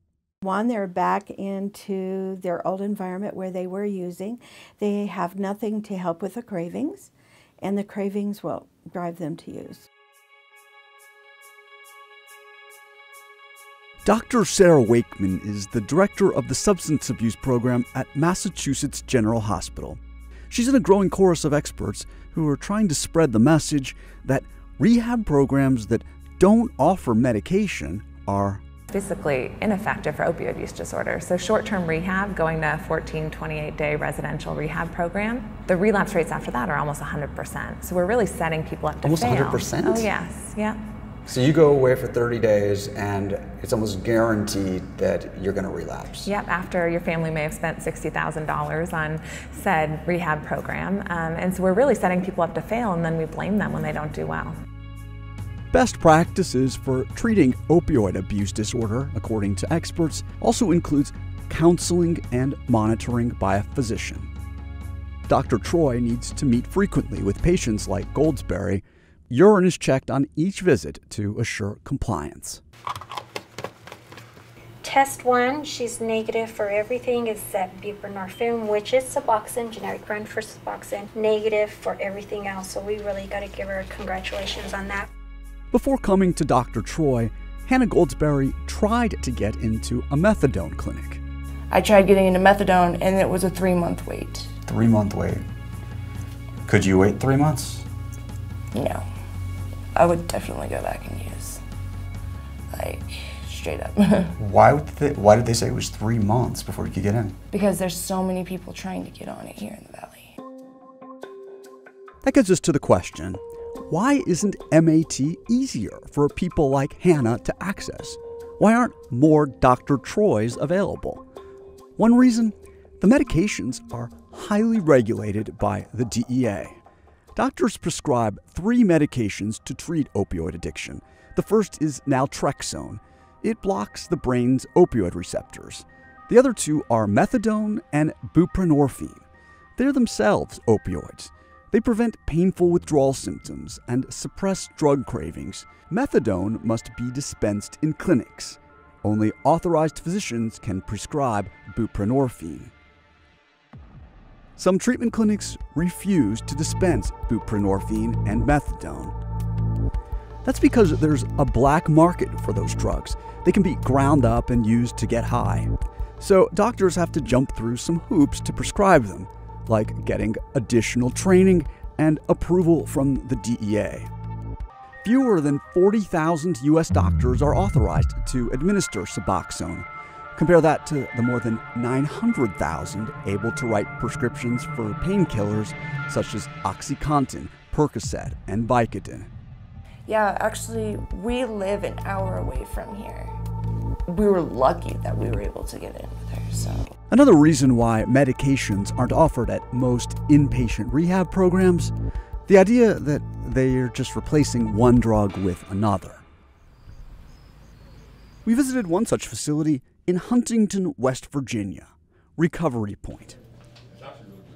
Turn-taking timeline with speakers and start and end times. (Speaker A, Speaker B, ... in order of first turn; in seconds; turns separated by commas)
Speaker A: 0.4-9.9, Speaker B: 14.0-20.0, Speaker B: 20.5-28.6, Speaker C: 28.9-40.8, Speaker B: 39.0-40.1, Speaker D: 41.3-46.1, Speaker C: 46.2-54.5, Speaker B: 55.7-64.3, Speaker B: 65.3-72.6, Speaker E: 74.8-85.1, Speaker B: 85.7-91.2, Speaker F: 91.7-94.5, Speaker D: 96.7-97.8, Speaker F: 98.7-99.1, Speaker F: 99.9-101.6, Speaker F: 102.7-104.4, Speaker D: 104.4-107.3, Speaker F: 107.5-110.4, Speaker B: 112.2-121.2, Speaker B: 122.0-126.8, Speaker B: 127.3-139.2, Speaker B: 139.8-152.7, Speaker B: 154.6-159.2, Speaker B: 160.4-174.1, Speaker B: 175.0-189.3, Speaker F: 190.1-193.3, Speaker F: 194.1-196.9, Speaker B: 197.1-201.9, Speaker B: 202.5-206.2, Speaker B: 208.5-213.4